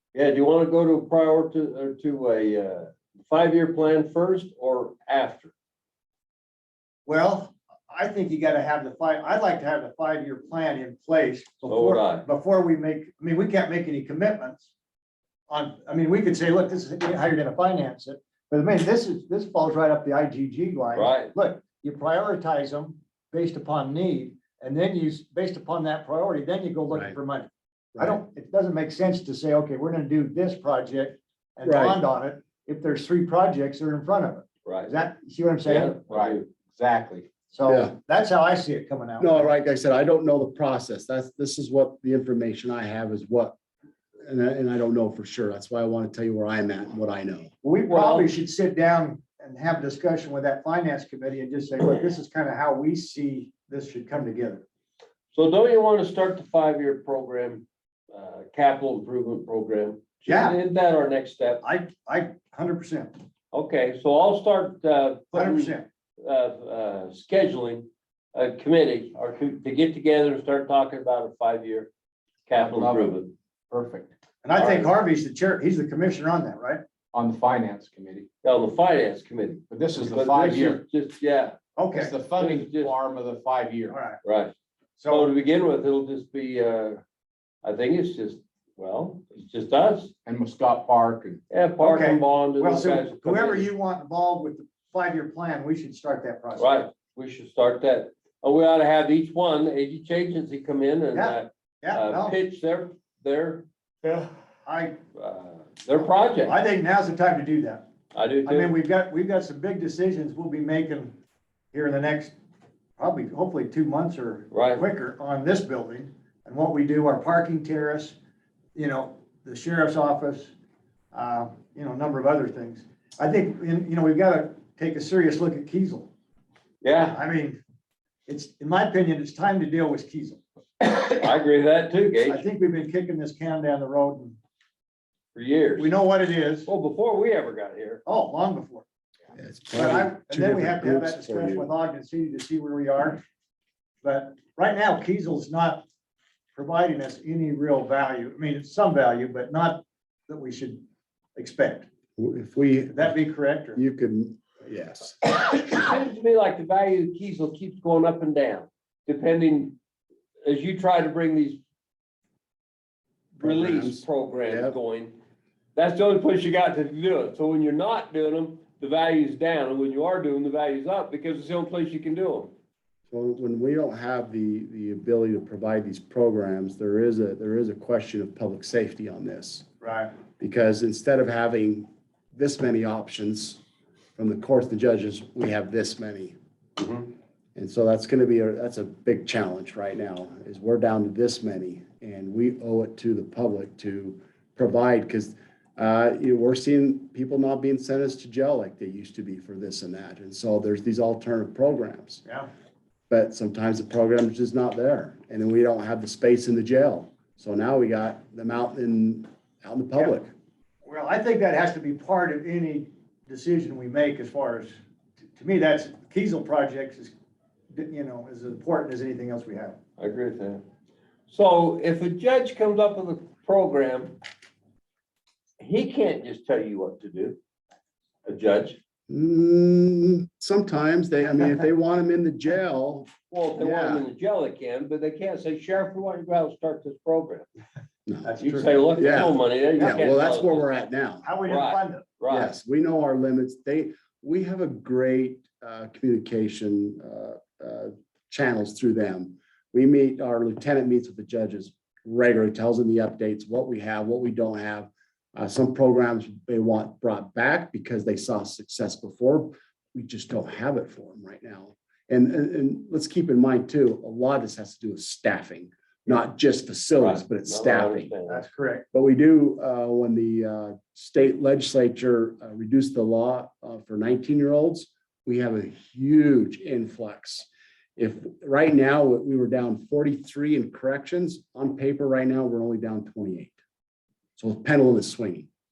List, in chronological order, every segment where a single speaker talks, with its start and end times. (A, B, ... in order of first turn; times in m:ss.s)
0:00.1-0:05.5 A
0:07.0-0:14.7 B
0:11.7-0:12.2 A
0:15.5-0:36.0 B
0:20.9-0:21.3 A
0:31.6-0:32.0 C
0:35.6-0:36.5 A
0:36.1-0:37.3 D
0:37.5-0:39.5 B
0:37.6-0:37.9 C
0:39.2-0:43.6 C
0:44.2-0:47.5 C
0:47.6-0:54.6 B
0:47.9-0:48.3 A
0:55.3-1:01.6 A
1:00.2-1:00.6 B
1:01.6-1:03.1 B
1:03.5-1:11.9 A
1:05.3-1:05.8 B
1:12.5-1:13.3 A
1:12.5-1:13.2 D
1:13.7-1:14.1 D
1:14.4-1:16.8 B
1:14.6-1:14.9 A
1:17.1-1:18.3 D
1:18.4-1:21.6 A
1:19.7-1:20.8 D
1:21.8-1:22.1 B
1:21.9-1:24.0 D
1:22.3-1:22.9 A
1:23.9-1:24.2 B
1:24.2-1:24.5 A
1:25.0-1:25.3 B
1:25.1-1:27.0 A
1:27.6-1:30.1 A
1:30.2-1:31.4 D
1:31.5-1:33.7 A
1:31.8-1:36.8 B
1:36.6-1:43.6 A
1:41.1-1:42.4 B
1:44.0-1:45.0 B
1:45.1-1:46.6 A
1:46.0-1:47.8 B
1:48.1-1:48.7 A
1:48.4-1:51.2 B
1:51.7-1:52.3 B
1:53.0-1:58.2 B
1:54.5-1:54.8 A
1:58.7-2:00.5 B
2:01.1-2:06.1 B
2:06.8-2:07.2 A
2:07.0-2:07.6 B
2:08.3-2:10.4 B
2:10.8-2:12.4 A
2:12.2-2:14.4 B
2:15.3-2:15.9 A
2:15.8-2:16.7 B
2:16.6-2:18.0 A
2:18.0-2:18.8 B
2:19.3-2:21.7 C
2:19.7-2:23.2 B
2:24.0-2:25.8 B
2:26.5-2:30.8 B
2:31.4-2:31.9 B
2:32.2-2:33.1 C
2:32.9-2:33.8 B
2:33.7-2:35.3 C
2:35.4-2:39.8 A
2:40.4-2:41.6 A
2:43.4-2:45.2 A
2:43.4-2:44.7 C
2:45.8-2:52.5 A
2:53.1-2:59.6 C
2:59.8-3:00.1 B
3:00.4-3:03.6 C
3:04.2-3:06.4 C
3:06.8-3:07.0 A
3:07.6-3:22.2 C
3:23.1-3:30.3 C
3:30.8-3:34.8 B
3:35.4-3:37.1 B
3:37.7-3:39.8 B
3:40.0-3:40.6 A
3:41.3-3:44.1 A
3:45.6-3:47.4 A
3:48.2-3:48.8 A
3:49.1-3:54.0 C
3:53.3-3:57.5 A
3:58.2-3:58.7 B
3:58.4-4:00.7 A
3:58.9-4:01.2 C
4:01.2-4:02.0 B
4:01.4-4:02.5 A
4:02.3-4:28.1 C
4:27.0-4:28.4 A
4:28.3-4:28.8 B
4:28.9-4:43.6 C
4:44.4-4:45.5 C